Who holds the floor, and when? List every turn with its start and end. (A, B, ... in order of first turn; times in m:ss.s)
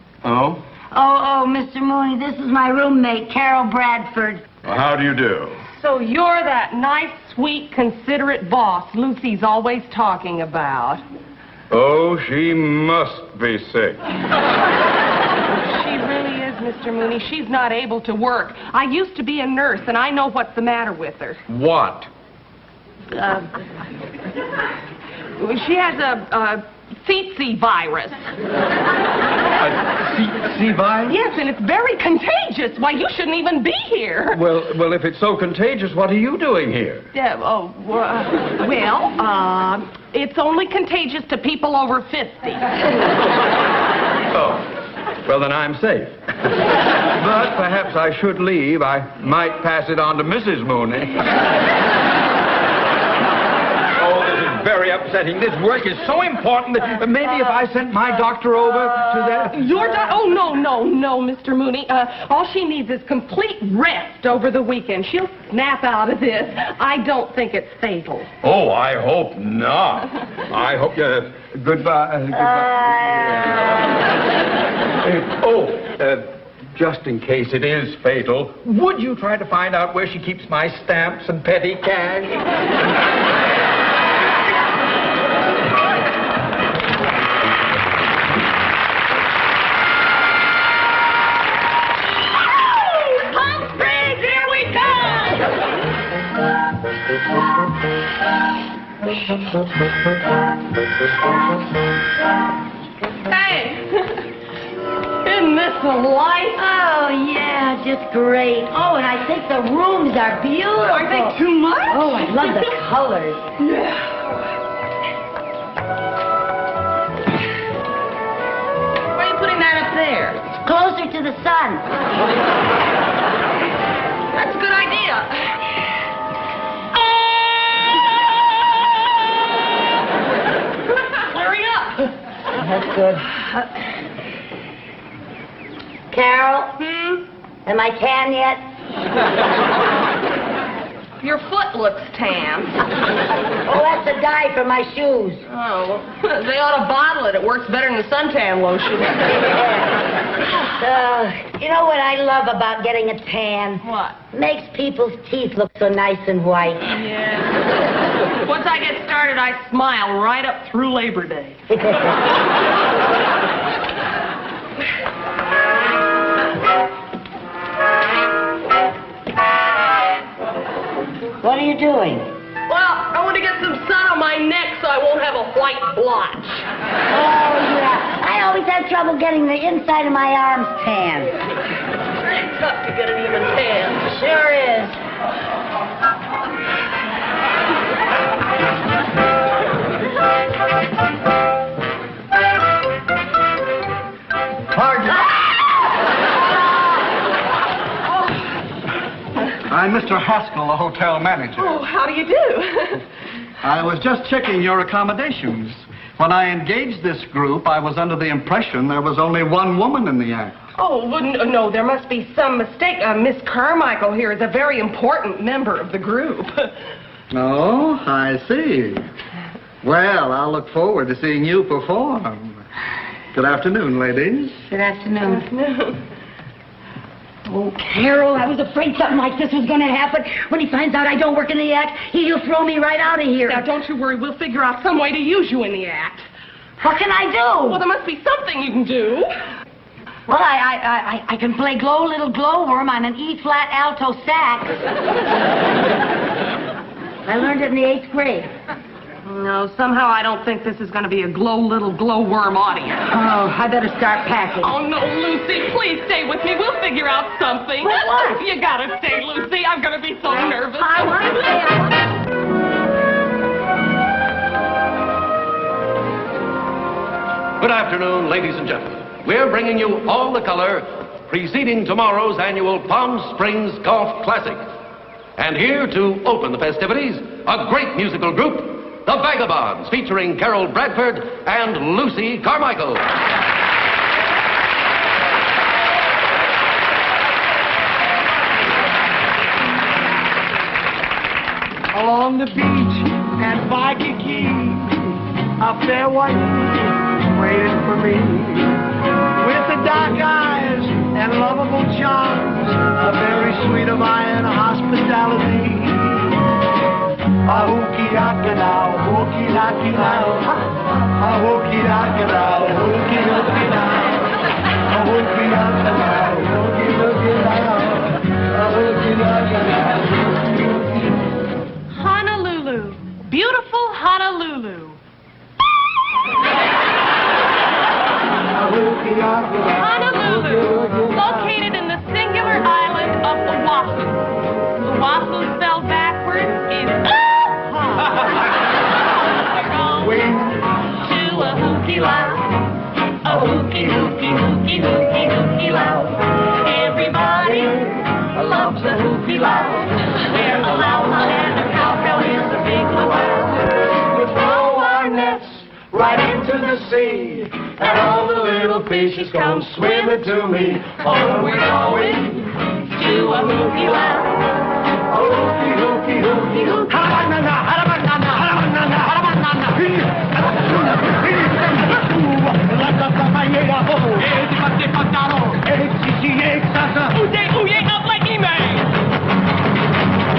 0:00.2-0:00.6 A
0:00.9-0:04.4 B
0:04.6-0:05.6 A
0:05.7-0:11.0 C
0:11.7-0:14.0 A
0:15.5-0:21.4 C
0:21.5-0:22.1 A
0:23.2-0:23.4 C
0:25.4-0:28.3 C
0:29.6-0:31.1 A
0:31.0-0:34.4 C
0:34.3-0:37.0 A
0:37.1-0:42.7 C
0:44.3-0:44.6 A
0:45.2-0:46.1 A
0:47.2-0:51.0 A
0:54.0-0:59.6 A
0:59.5-1:08.3 C
1:08.4-1:12.8 A
1:12.3-1:13.5 B
1:15.0-1:22.4 A
1:32.6-1:35.5 C
1:43.2-1:44.2 C
1:45.2-1:46.6 C
1:46.6-1:51.4 B
1:50.9-1:52.8 C
1:51.9-1:53.4 B
1:53.6-1:54.2 C
1:59.1-2:00.5 C
2:00.6-2:01.8 B
2:04.3-2:05.6 C
2:07.0-2:07.8 C
2:11.1-2:12.1 C
2:12.5-2:13.4 B
2:16.1-2:16.8 B
2:16.8-2:17.2 C
2:17.6-2:18.6 B
2:21.2-2:22.8 C
2:23.6-2:25.4 B
2:25.5-2:29.4 C
2:29.5-2:29.9 B
2:30.7-2:36.8 B
2:33.8-2:34.2 C
2:36.9-2:37.7 C
2:38.3-2:41.6 C
2:41.7-2:42.2 B
2:51.4-2:52.3 B
2:52.7-2:56.6 C
2:57.1-3:01.3 B
3:02.4-3:04.1 C
3:04.0-3:05.0 B
3:14.7-3:15.3 A
3:19.7-3:21.8 A
3:21.6-3:23.0 C
3:23.6-3:30.5 A
3:30.8-3:36.7 C
3:37.3-3:39.0 A
3:39.8-3:42.6 A
3:43.3-3:44.6 A
3:44.7-3:45.4 B
3:45.2-3:46.0 C
3:47.4-3:53.6 B
3:53.4-3:56.2 C
3:56.8-3:57.8 B
3:57.6-3:59.3 C
4:00.3-4:04.8 B
4:07.2-4:08.5 B
4:09.2-4:13.0 C
4:13.1-4:14.7 B
4:14.6-4:21.5 C
4:17.8-4:18.4 B
4:20.3-4:22.0 B
4:27.6-4:34.6 D
4:35.4-4:43.1 D
4:51.9-4:58.8 E
4:59.4-5:06.4 E
5:07.4-5:14.2 E
5:14.8-5:21.0 E
5:21.9-5:25.0 C
5:28.5-5:31.3 E
5:29.8-5:38.3 C
5:39.5-5:40.3 C
5:40.0-5:40.6 E
5:40.9-5:42.5 C
5:43.2-5:53.6 C
5:53.9-5:59.2 E
5:59.0-6:00.2 C
5:59.9-6:02.3 E
6:01.0-6:04.3 C
6:05.1-6:17.2 E
6:17.1-6:18.8 C